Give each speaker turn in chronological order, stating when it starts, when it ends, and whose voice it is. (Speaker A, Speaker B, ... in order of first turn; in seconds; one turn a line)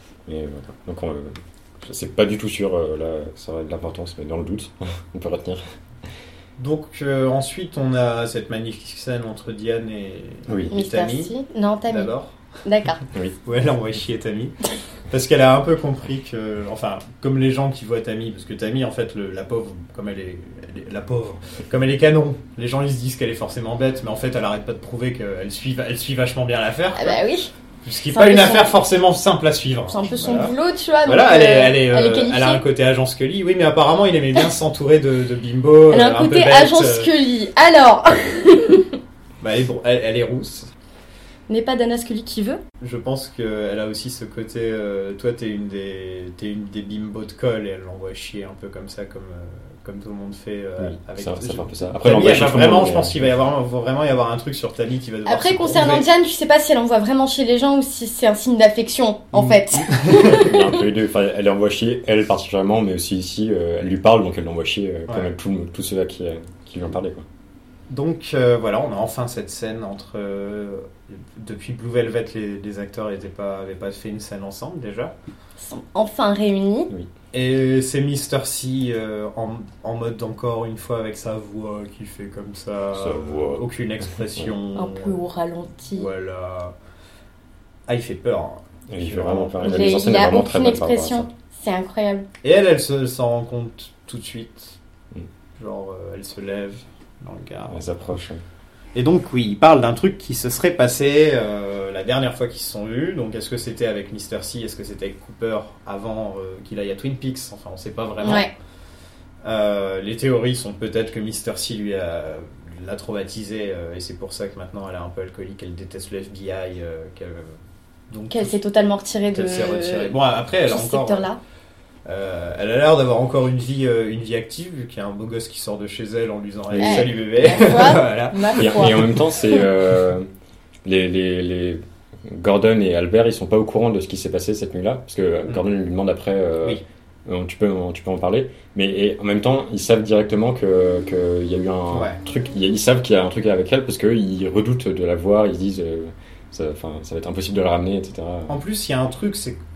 Speaker A: 0.3-5.6
Speaker B: 6.6-11.3
Speaker A: 10.5-10.7
Speaker C: 10.7-12.1
Speaker B: 11.9-12.3
Speaker C: 12.7-13.0
Speaker B: 13.4-14.6
Speaker B: 15.1-27.2
Speaker C: 26.9-27.5
Speaker B: 27.9-30.5
Speaker C: 28.1-28.7
Speaker C: 29.9-32.6
Speaker B: 31.1-37.1
Speaker C: 35.9-39.0
Speaker B: 39.4-40.7
Speaker C: 41.5-42.6
Speaker B: 42.8-56.0
Speaker A: 50.8-53.3
Speaker C: 55.3-60.6
Speaker B: 59.3-60.5
Speaker A: 60.2-67.3
Speaker B: 67.9-75.1
Speaker C: 75.6-76.9
Speaker B: 77.3-85.2
Speaker A: 82.9-83.6
Speaker C: 84.8-86.1
Speaker B: 85.9-86.7
Speaker B: 87.9-89.9
Speaker A: 88.9-91.3
Speaker C: 89.6-92.3
Speaker B: 92.4-94.8
Speaker B: 95.6-97.9
Speaker A: 97.7-98.4
Speaker B: 99.0-108.5
Speaker C: 108.2-108.5
Speaker B: 109.4-117.5
Speaker B: 118.1-118.5
Speaker C: 118.3-120.2
Speaker B: 119.3-121.3
Speaker C: 120.7-121.4
Speaker B: 122.1-129.0
Speaker A: 126.7-127.1
Speaker C: 126.8-129.6
Speaker A: 128.6-130.3
Speaker A: 130.8-148.6
Speaker B: 141.9-142.2
Speaker B: 148.5-149.6